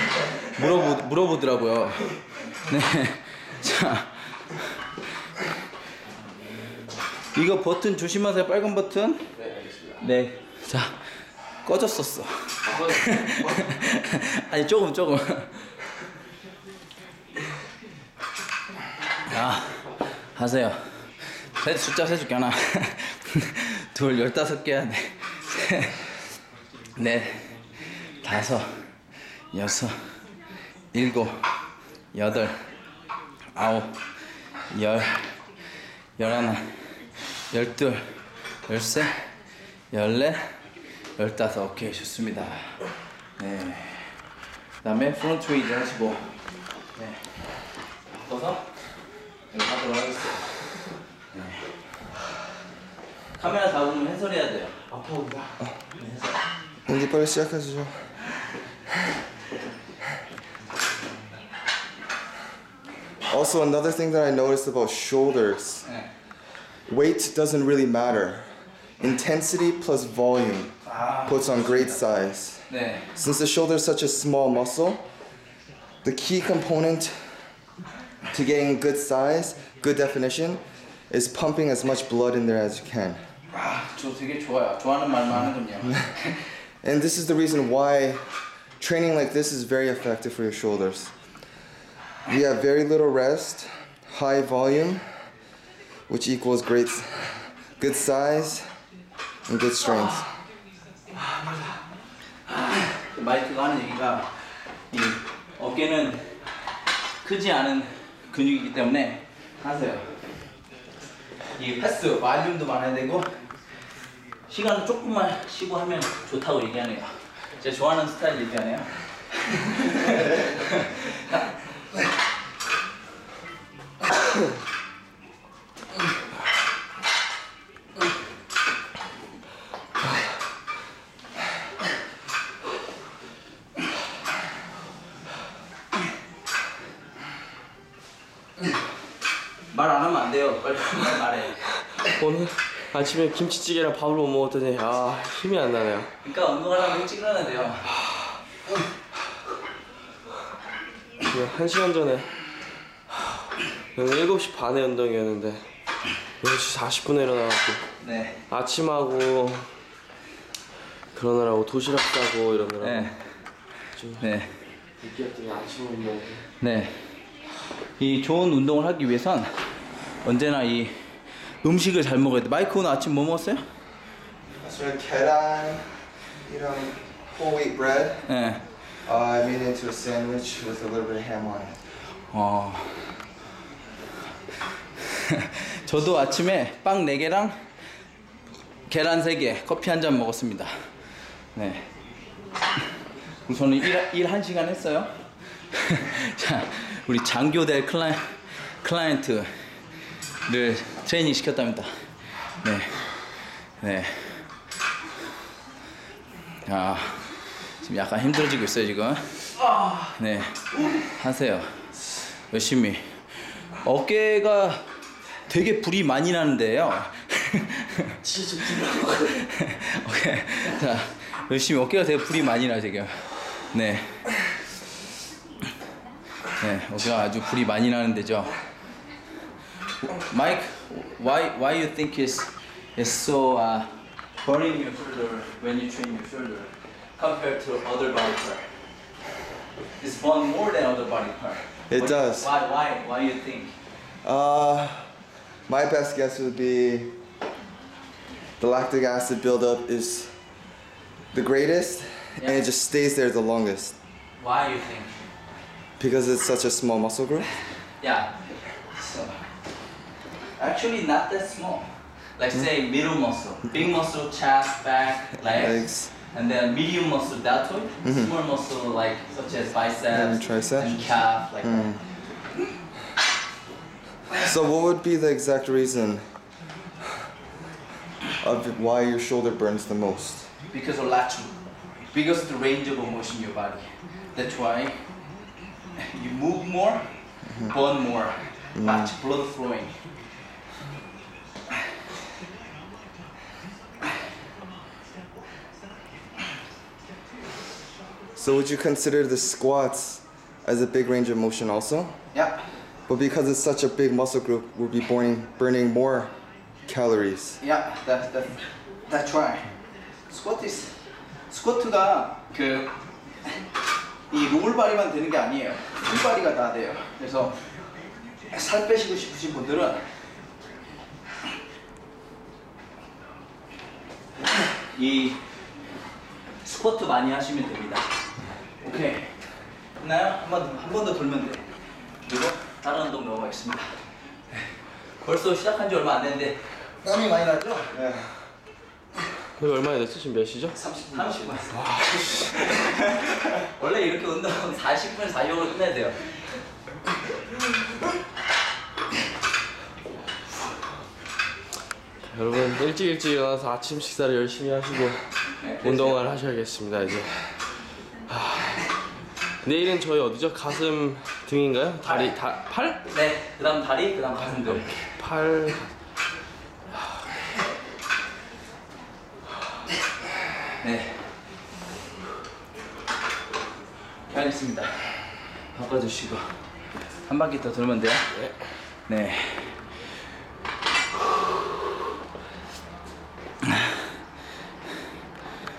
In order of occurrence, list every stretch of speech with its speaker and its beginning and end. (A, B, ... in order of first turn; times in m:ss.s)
0:00.5-0:04.6 A
0:07.3-0:09.2 A
0:09.3-0:10.0 B
0:10.0-0:11.0 A
0:11.6-0:15.5 A
0:12.6-0:13.8 B
0:19.3-0:25.9 A
0:27.0-0:27.4 A
0:28.2-0:28.7 A
0:29.5-0:29.9 A
0:30.9-0:31.4 A
0:32.1-0:32.6 A
0:33.6-0:34.0 A
0:34.7-0:35.3 A
0:36.2-0:36.9 A
0:37.5-0:38.1 A
0:38.6-0:39.1 A
0:39.9-0:40.4 A
0:41.2-0:42.8 A
0:43.4-0:44.1 A
0:44.8-0:46.3 A
0:48.1-0:48.6 A
0:49.5-0:50.5 A
0:51.3-0:51.6 A
0:53.4-0:54.8 A
0:54.9-0:55.6 B
0:56.0-0:56.3 A
0:56.9-0:58.0 C
1:03.3-1:05.8 C
1:06.9-1:08.5 C
1:09.0-1:10.7 C
1:10.8-1:12.0 A
1:11.2-1:15.0 C
1:12.7-1:13.1 A
1:16.0-1:17.2 C
1:18.3-1:23.2 C
1:23.7-1:26.4 A
1:26.8-1:28.2 C
1:28.8-1:31.1 C
1:32.3-1:35.0 C
1:36.1-1:38.6 C
1:39.5-1:40.3 C
1:42.9-1:44.3 A
1:44.9-1:46.3 A
1:47.2-1:50.1 A
1:51.6-1:53.3 A
1:54.5-2:01.5 A
2:19.7-2:21.6 A
2:21.9-2:26.1 B
2:26.2-2:27.9 A
2:31.2-2:32.3 B
2:34.0-2:35.6 B
2:36.4-2:37.8 B
2:38.0-2:38.4 A
2:38.5-2:39.7 B
2:41.1-2:43.1 B
2:42.8-2:43.2 A
2:44.0-2:44.2 B
2:44.2-2:44.5 A
2:45.0-2:46.4 B
2:46.6-2:47.0 A
2:48.0-2:49.6 A
2:50.2-2:53.6 A
2:54.6-2:55.9 C
2:56.4-2:58.3 C
2:58.3-2:58.6 A
2:59.0-3:01.8 C
3:02.3-3:03.0 A
3:05.1-3:07.6 A
3:08.9-3:10.7 A
3:11.5-3:11.8 A
3:13.4-3:15.1 A
3:15.7-3:18.3 A
3:18.8-3:19.5 A
3:20.5-3:21.9 A
3:22.6-3:23.1 A
3:23.8-3:24.4 A
3:26.6-3:29.3 A
3:29.7-3:30.1 B
3:30.2-3:31.8 A
3:32.5-3:34.8 A
3:35.5-3:38.1 A
3:38.2-3:39.4 B
3:39.4-3:44.2 A
3:46.6-3:48.5 A
3:50.0-3:53.9 A
3:54.4-3:58.7 A
4:00.0-4:03.7 A
4:01.9-4:02.5 C
4:04.2-4:05.1 C
4:05.7-4:07.1 C
4:08.6-4:10.3 C
4:11.3-4:14.0 C
4:14.4-4:15.1 A
4:16.0-4:17.5 C
4:18.0-4:18.4 A
4:18.9-4:19.4 A
4:20.6-4:31.9 A
4:25.4-4:26.1 C
4:28.0-4:28.3 C
4:30.1-4:31.0 C
4:31.6-4:32.0 C
4:34.4-4:36.2 C
4:38.4-4:40.5 C
4:40.7-4:41.5 A
4:42.1-4:45.0 A
4:46.0-4:47.0 A
4:47.7-4:49.9 A
4:48.8-4:49.1 C
4:58.4-5:02.1 C
5:02.3-5:02.6 A
5:03.1-5:06.3 C
5:06.8-5:07.6 C
5:07.6-5:09.7 A
5:10.3-5:10.9 A
5:11.5-5:12.9 A
5:14.3-5:17.6 A
5:18.5-5:20.0 A
5:24.9-5:25.4 A
5:26.6-5:28.1 A
5:28.8-5:29.3 A
5:30.0-5:31.6 A
5:32.2-5:33.9 A
5:35.2-5:37.9 A
5:37.9-5:38.3 C
5:39.6-5:40.8 B
5:40.8-5:41.9 A
5:40.8-5:41.5 C
5:41.7-5:42.7 B
5:42.5-5:46.3 A
5:52.2-5:55.2 B
5:55.6-5:56.2 A
5:55.8-5:57.3 B
5:58.3-5:58.8 B
5:59.6-6:03.0 B
6:03.1-6:04.9 A
6:04.5-6:05.9 B
6:10.8-6:11.2 A
6:14.3-6:16.5 A
6:17.2-6:18.3 A
6:19.1-6:19.8 A